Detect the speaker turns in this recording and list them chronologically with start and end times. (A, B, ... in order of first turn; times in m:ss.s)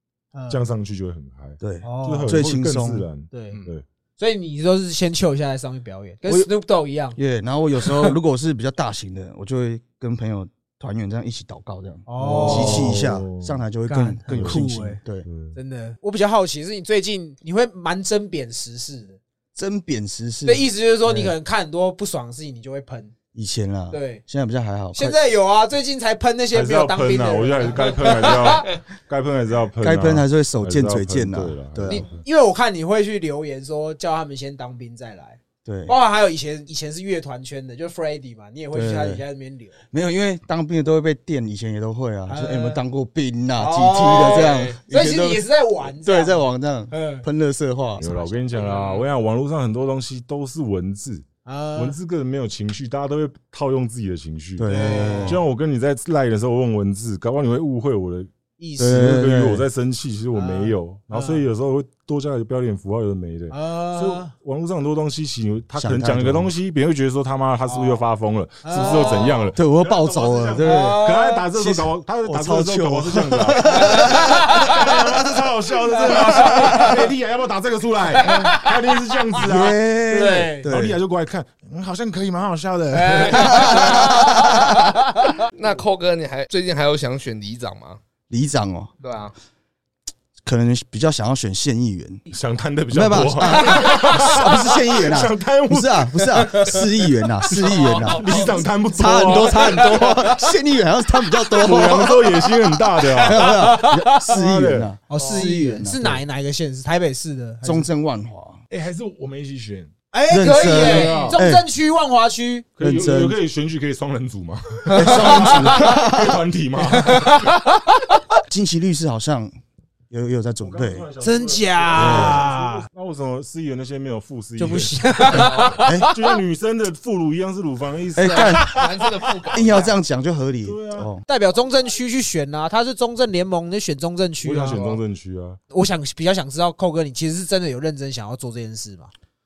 0:00.3-0:00.6 A
0:00.5-0:03.8 B
0:01.6-0:03.1 C
0:01.8-0:02.4 A
0:03.3-0:03.6 A
0:04.2-0:07.2 A
0:07.1-0:15.3 C
0:07.8-0:08.1 A
0:12.1-0:13.0 A
0:12.2-0:13.6 B
0:13.9-0:15.0 A
0:14.3-0:14.7 B
0:15.2-0:15.6 B
0:15.5-0:19.2 A
0:19.5-0:21.3 C
0:20.4-0:23.1 A
0:23.3-0:25.2 C
0:23.9-0:24.2 A
0:24.9-0:28.8 A
0:26.5-0:32.2 B
0:29.8-0:32.0 C
0:31.9-0:39.8 A
0:35.6-0:35.9 C
0:38.7-0:39.2 C
0:39.9-0:48.1 C
0:42.3-0:42.8 A
0:43.6-0:47.2 A
0:44.0-0:44.8 D
0:48.0-1:24.3 B
0:48.0-0:48.3 A
0:48.5-0:49.1 D
0:51.4-0:52.0 A
0:54.6-0:55.4 C
0:54.6-0:55.4 A
0:58.6-0:59.1 A
0:58.8-0:59.6 C
1:00.3-1:01.4 A
1:03.5-1:04.3 A
1:05.8-1:06.5 C
1:07.6-1:08.0 A
1:08.6-1:09.5 A
1:09.0-1:09.4 D
1:09.5-1:14.9 C
1:10.6-1:11.4 A
1:13.7-1:14.9 A
1:16.0-1:16.9 A
1:16.1-1:16.9 C
1:18.2-1:19.0 A
1:19.4-1:21.0 C
1:20.1-1:20.7 A
1:22.9-1:25.4 A
1:23.4-1:24.7 C
1:25.5-1:28.0 D
1:28.3-1:28.9 C
1:29.0-1:29.3 D
1:30.4-1:32.2 C
1:32.3-1:36.7 B
1:32.9-1:42.5 C
1:33.7-1:34.3 A
1:37.5-1:40.2 B
1:37.7-1:38.6 D
1:37.7-1:38.0 A
1:39.3-1:40.4 A
1:41.6-1:44.9 B
1:43.1-1:44.0 A
1:43.2-1:46.2 C
1:45.1-1:47.9 A
1:47.6-1:48.6 C
1:48.7-1:51.4 B
1:50.1-1:52.7 A
1:50.3-1:51.6 C
1:52.8-1:57.5 B
1:52.8-1:53.4 C
1:54.9-1:56.0 A
1:54.9-1:56.4 C
1:56.8-1:58.2 A
1:58.5-1:59.6 C
2:00.1-2:01.1 C
2:00.6-2:08.8 B
2:01.2-2:02.8 A
2:01.9-2:02.4 C
2:04.6-2:06.2 A
2:05.3-2:05.8 D
2:05.8-2:06.1 C
2:08.1-2:08.8 C
2:08.3-2:08.9 A
2:08.6-2:10.0 D
2:09.5-2:11.2 C
2:10.6-2:11.1 B
2:11.2-2:14.8 A
2:14.4-2:15.6 B
2:14.7-2:15.0 D
2:15.7-2:19.1 A